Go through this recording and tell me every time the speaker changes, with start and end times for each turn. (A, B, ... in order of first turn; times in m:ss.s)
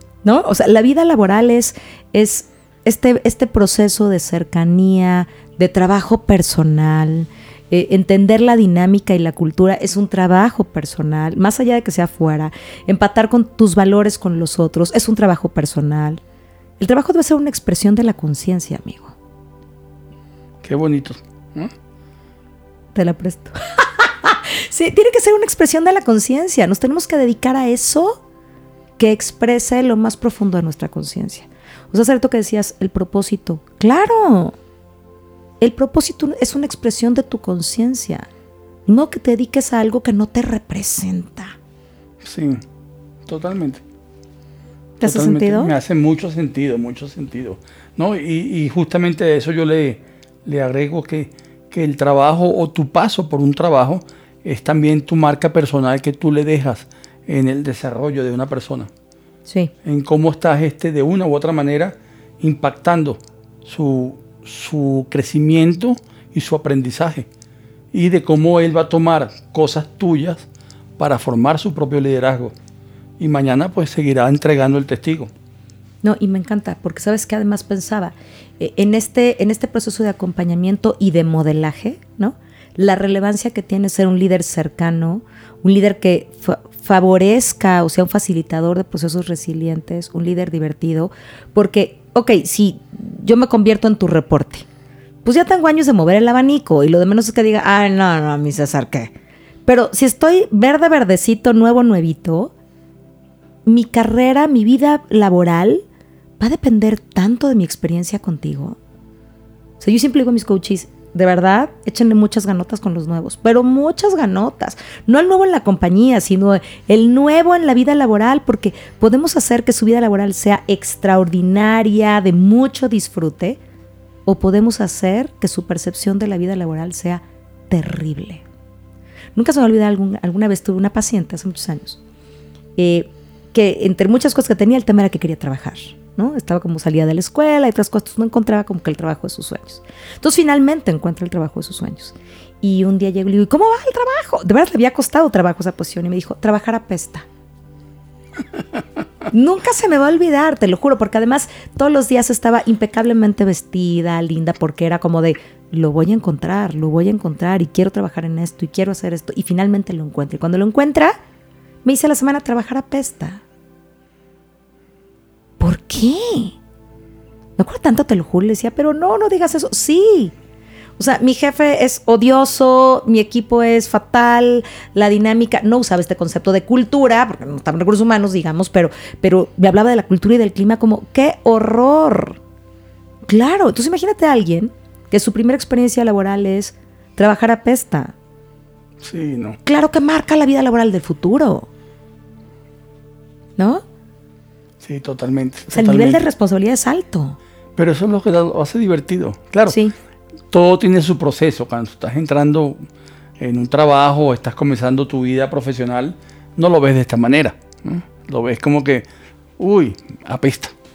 0:00.2-0:16.2 A
0:16.8-0:19.1 A
0:20.6-0:21.7 B
0:22.9-0:28.2 A
0:29.0-0:34.6 A
0:35.6-0:38.3 A
0:38.9-0:41.6 A
0:42.2-0:42.6 B
0:43.2-0:43.8 B
0:45.0-0:45.7 A
0:45.0-0:58.9 B
0:59.5-0:59.7 A
0:59.8-1:07.3 B
1:07.9-1:10.4 B
1:11.0-1:12.5 B
1:13.2-1:15.3 B
1:16.0-1:34.6 A
1:35.2-1:39.1 A
1:39.6-1:42.5 A
1:43.6-1:45.8 A
1:46.4-1:48.8 A
1:49.8-2:03.6 A
2:04.2-2:08.4 A
2:09.3-2:12.0 A
2:12.8-2:27.2 A
2:29.3-2:41.2 A
2:41.8-2:43.4 A
2:45.6-2:46.6 A
2:47.6-2:50.3 A
2:51.0-3:02.4 A
3:03.3-3:08.1 A
3:09.0-3:09.6 B
3:09.6-3:11.7 A
3:13.6-3:13.8 A
3:14.8-3:16.2 B
3:15.7-3:17.4 A
3:17.8-3:19.8 B
3:19.7-3:19.9 A
3:20.5-3:22.8 B
3:23.4-3:29.0 B
3:29.6-3:30.7 B